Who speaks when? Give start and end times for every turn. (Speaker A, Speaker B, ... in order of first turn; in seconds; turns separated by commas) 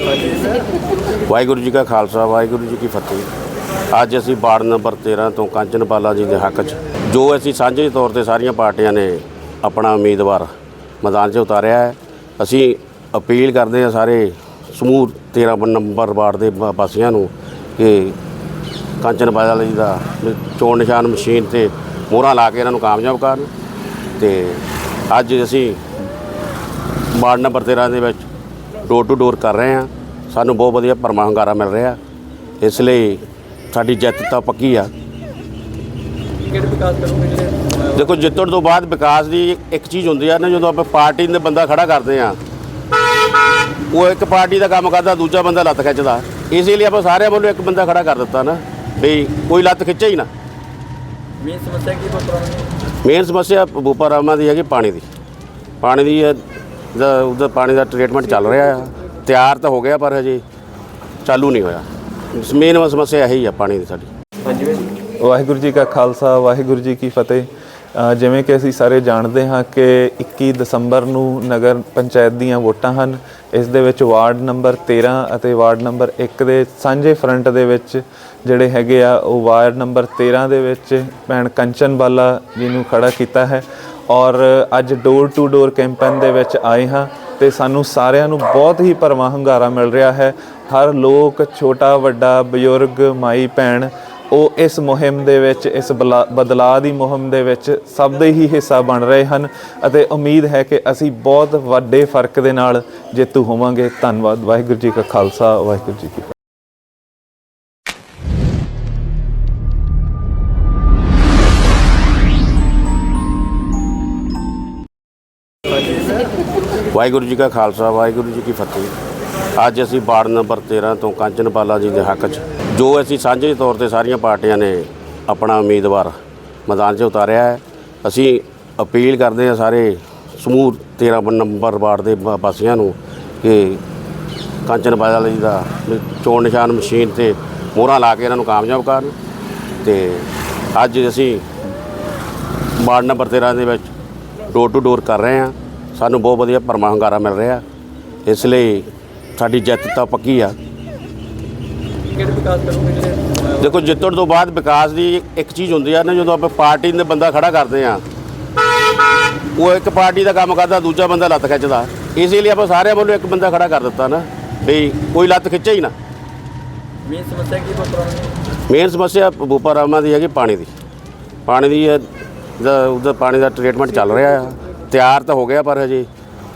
Speaker A: 1.3-3.3, Speaker A: 3.9-10.5, Speaker A: 11.0-18.1, Speaker A: 19.0-23.5, Speaker A: 24.2-25.8, Speaker A: 27.1-28.2, Speaker A: 28.8-32.0, Speaker A: 32.6-34.9, Speaker B: 36.5-38.0, Speaker A: 37.9-42.4, Speaker A: 43.9-50.3, Speaker B: 51.4-52.7, Speaker A: 53.0-55.0, Speaker A: 55.8-56.4, Speaker A: 56.9-60.4, Speaker A: 61.2-61.8, Speaker A: 62.4-64.1, Speaker C: 65.2-106.3, Speaker A: 116.9-118.9, Speaker A: 119.6-126.1, Speaker A: 126.7-133.8, Speaker A: 134.7-139.1, Speaker A: 139.8-141.4, Speaker A: 142.8-143.9, Speaker A: 144.5-147.6, Speaker A: 148.2-150.5, Speaker B: 152.1-153.7, Speaker A: 153.6-158.0, Speaker A: 159.6-165.9, Speaker B: 167.0-168.4, Speaker A: 168.7-170.7, Speaker A: 171.4-172.1, Speaker A: 172.6-176.1